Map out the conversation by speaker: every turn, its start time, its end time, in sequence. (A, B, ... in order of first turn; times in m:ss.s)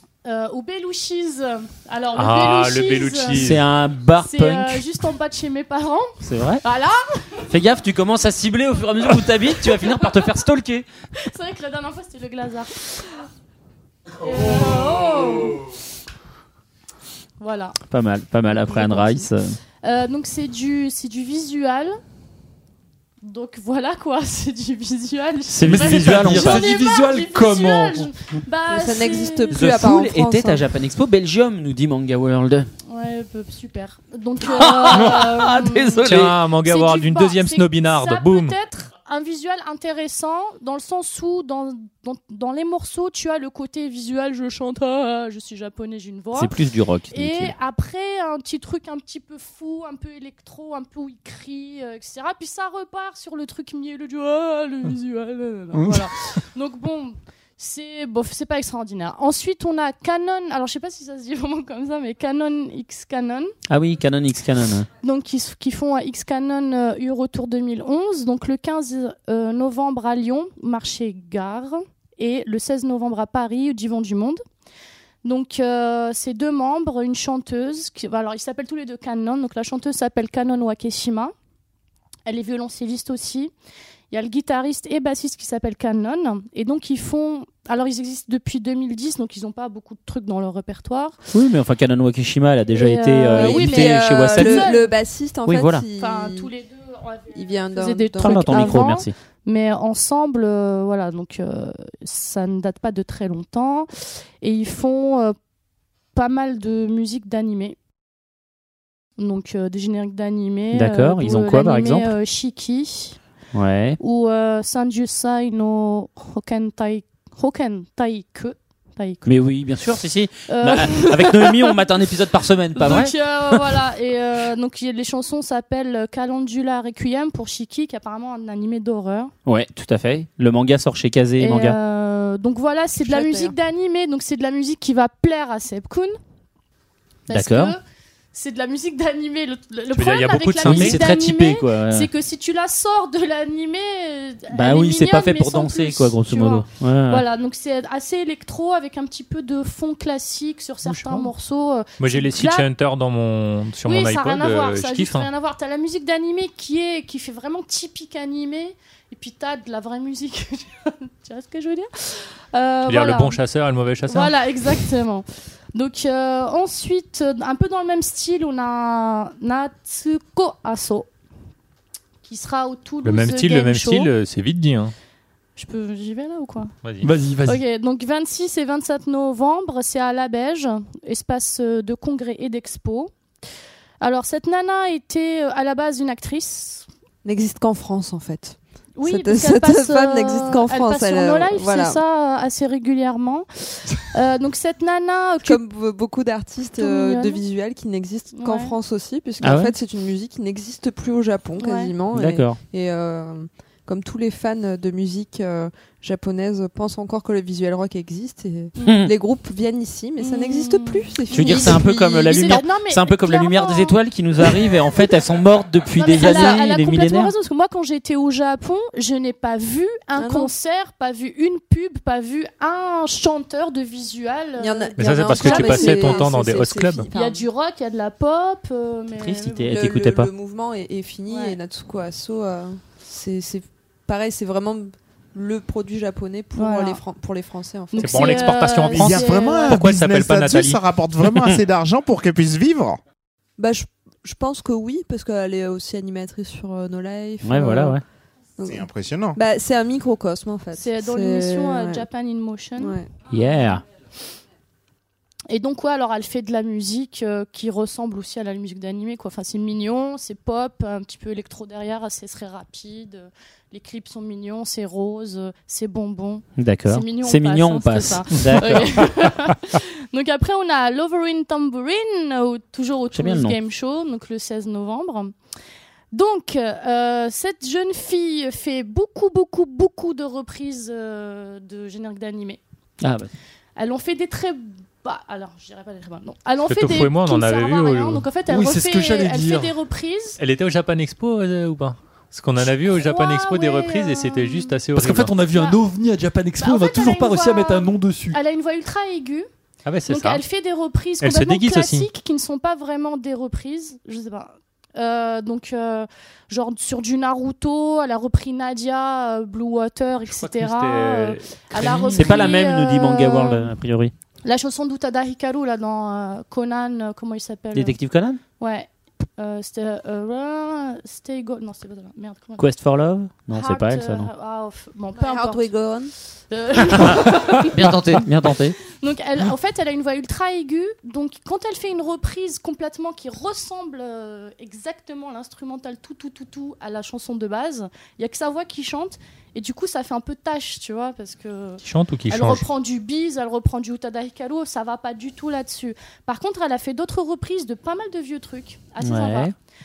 0:00.2-0:03.6 A
0:02.1-0:03.6 B
0:03.3-0:04.8 C
0:04.1-0:07.4 A
0:06.2-0:06.6 C
0:07.5-0:10.8 C
0:09.8-0:10.3 A
0:11.2-0:12.9 A
0:14.2-0:15.7 A
0:17.4-0:17.8 A
0:17.9-0:19.6 C
0:18.4-0:19.3 A
0:19.8-0:22.0 A
0:23.2-0:29.8 A
0:25.5-0:26.7 C
0:25.6-0:28.1 D
0:28.7-0:30.6 E
0:29.5-0:32.7 C
0:32.9-1:03.5 A
0:34.4-0:36.4 C
0:36.0-0:38.6 B
0:46.3-0:47.5 C
1:03.7-1:04.8 C
1:05.0-1:14.4 A
1:15.2-1:21.3 A
1:22.2-1:23.5 A
1:24.1-1:31.2 A
1:31.3-1:34.7 C
1:32.7-1:34.9 A
1:33.3-1:36.5 E
1:35.4-1:35.9 C
1:35.9-1:43.9 A
1:37.3-1:38.8 E
1:38.2-1:39.1 C
1:44.4-1:45.4 A
1:46.1-1:47.8 A
1:49.2-1:53.2 A
1:50.7-1:52.1 C
1:53.5-1:54.0 C
1:54.0-1:59.3 A
1:59.2-2:03.7 C
2:00.5-2:01.8 A
2:02.7-2:09.3 A
2:09.4-2:11.8 C
2:11.4-2:16.1 A
2:13.0-2:13.5 E
2:17.3-2:17.8 A
2:17.3-2:17.8 C
2:18.3-2:32.7 A
2:19.9-2:21.0 B
2:20.6-2:22.1 C
2:24.5-2:27.2 C
2:30.8-2:31.3 B
2:32.0-2:35.3 B
2:33.8-2:43.4 A
2:42.8-2:44.4 B
2:44.0-2:51.1 A
2:52.2-2:54.1 A
2:53.0-2:54.9 B
2:55.6-2:56.7 A
2:56.8-2:57.1 B
2:57.0-2:57.6 D
2:57.4-3:03.1 A
3:04.0-3:06.9 A
3:07.2-3:12.0 E
3:09.0-3:13.4 A
3:14.1-3:15.6 A
3:15.4-3:32.6 E
3:16.8-3:17.4 A
3:18.3-3:18.7 A
3:19.4-3:19.7 C
3:21.6-3:21.9 A
3:22.1-3:22.6 C
3:28.8-3:29.1 A
3:28.8-3:29.1 C
3:30.2-3:35.0 A
3:31.3-3:37.3 C
3:35.9-3:46.3 A
3:36.2-3:36.6 E
3:40.2-3:40.5 E
3:44.6-3:47.5 E
3:45.0-3:47.1 B
3:47.1-3:49.8 A
3:49.2-3:50.3 C
3:49.7-3:58.5 E
3:51.3-3:51.6 A
3:56.6-3:57.0 A
3:57.9-3:59.8 A
3:58.0-4:00.8 B
3:58.9-4:03.0 F
4:03.6-4:08.0 E
4:07.4-4:08.0 C
4:08.6-4:12.0 E
4:08.7-4:09.4 F
4:10.7-4:13.0 A
4:12.8-4:13.0 E
4:13.3-4:13.8 C
4:15.5-4:35.3 A
4:26.6-4:29.1 C
4:33.1-4:33.6 C
4:36.1-4:42.6 A
4:43.0-4:43.3 C
4:43.8-4:50.4 A
4:46.7-4:48.3 B
4:48.5-4:49.7 D
4:50.4-4:55.3 B
4:52.6-4:54.8 A
4:55.0-4:58.4 D
4:55.4-4:55.8 A
4:56.6-4:59.5 A
4:59.8-5:00.4 B
5:00.1-5:13.8 A
5:01.2-5:02.1 B
5:10.3-5:12.5 B
5:12.1-5:14.1 C
5:14.4-5:18.0 A
5:17.7-5:18.4 C
5:18.6-5:22.6 A
5:22.6-5:24.3 C
5:23.5-5:25.7 A
5:25.1-5:26.1 E
5:26.5-5:49.5 A
5:27.7-5:28.8 C
5:41.8-5:42.6 B
5:49.0-5:49.5 C